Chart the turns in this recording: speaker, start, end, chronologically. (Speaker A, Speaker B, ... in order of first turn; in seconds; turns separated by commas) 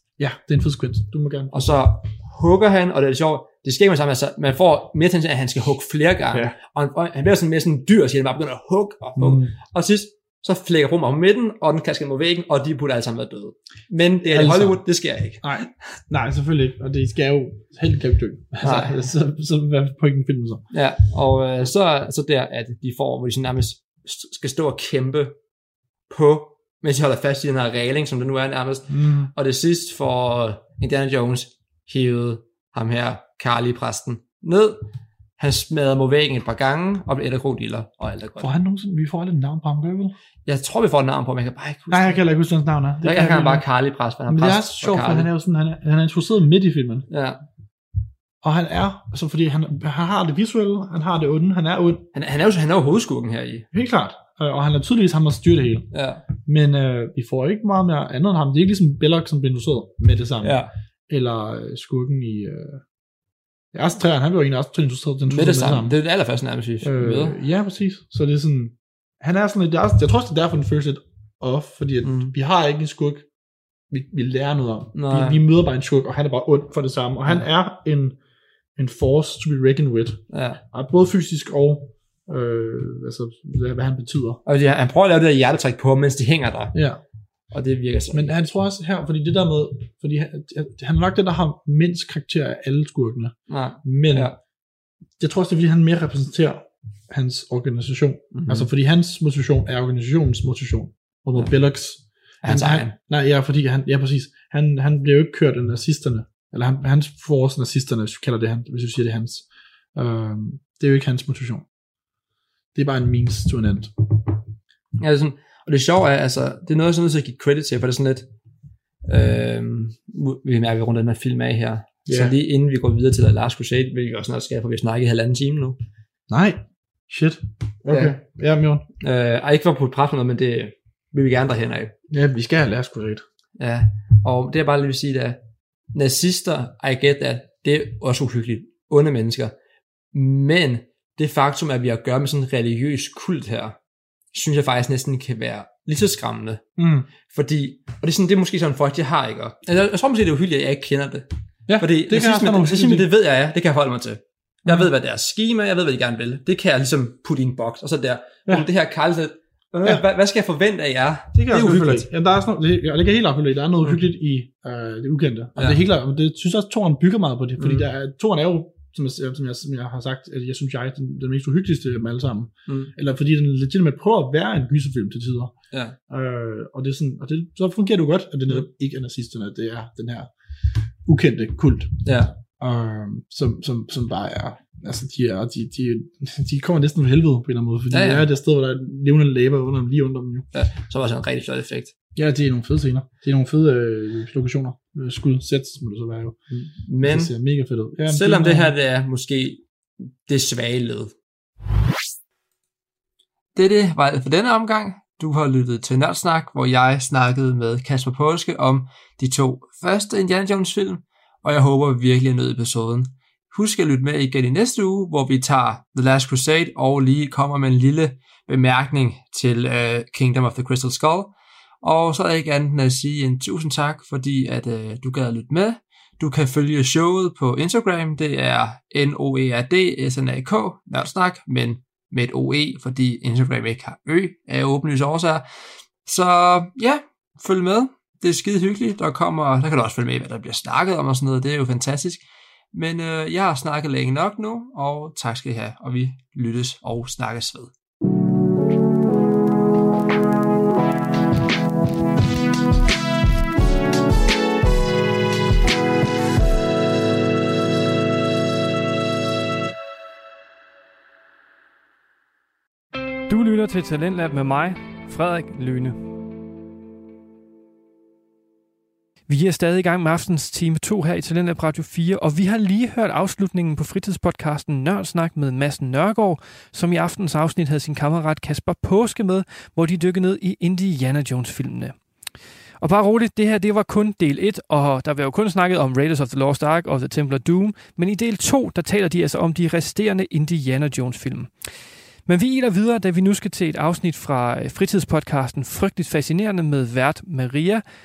Speaker A: 0.2-1.8, Speaker B: 1.5-15.4, Speaker A: 9.2-9.6, Speaker A: 14.2-14.8, Speaker A: 15.4-20.6, Speaker B: 18.6-19.0, Speaker B: 20.7-25.4, Speaker B: 26.1-34.8, Speaker A: 28.9-29.3, Speaker B: 35.4-38.5, Speaker A: 38.4-40.1, Speaker B: 40.5-42.2, Speaker A: 41.9-43.6, Speaker B: 43.0-45.3, Speaker A: 44.3-47.1, Speaker B: 47.1-47.4, Speaker A: 48.4-52.1, Speaker B: 52.1-53.7, Speaker A: 53.7-62.8, Speaker B: 55.9-56.2, Speaker B: 60.4-60.7, Speaker A: 63.7-66.0, Speaker B: 65.3-67.4, Speaker A: 66.8-73.3, Speaker B: 72.0-72.3, Speaker A: 73.9-78.2, Speaker B: 75.0-75.4, Speaker A: 78.8-84.4, Speaker B: 80.3-80.6, Speaker B: 84.5-86.8, Speaker A: 86.7-87.0, Speaker B: 87.5-88.4, Speaker A: 88.1-94.3, Speaker B: 93.5-94.4, Speaker A: 95.2-111.7, Speaker B: 98.3-98.7, Speaker B: 102.4-103.0, Speaker A: 112.8-114.3, Speaker B: 115.0-118.3, Speaker B: 119.1-125.8, Speaker A: 122.1-122.3, Speaker A: 126.3-128.9, Speaker B: 127.9-128.2, Speaker B: 129.0-131.9, Speaker A: 132.1-133.2, Speaker B: 133.6-135.4, Speaker B: 135.9-139.6, Speaker B: 140.1-143.8, Speaker B: 144.3-146.7, Speaker A: 146.8-147.1, Speaker B: 147.3-151.3, Speaker A: 151.7-153.1, Speaker B: 151.8-162.1, Speaker A: 161.3-175.5, Speaker B: 165.6-165.8, Speaker B: 167.6-167.9, Speaker A: 176.1-180.3, Speaker A: 181.1-190.5, Speaker B: 182.1-182.3, Speaker B: 187.9-188.3, Speaker B: 190.5-191.9, Speaker A: 192.2-198.7, Speaker B: 196.8-197.3, Speaker B: 198.1-201.1, Speaker B: 203.6-235.5, Speaker B: 236.0-247.7, Speaker C: 263.3-266.0, Speaker C: 269.3-281.9, Speaker C: 282.8-291.5, Speaker C: 292.3-297.8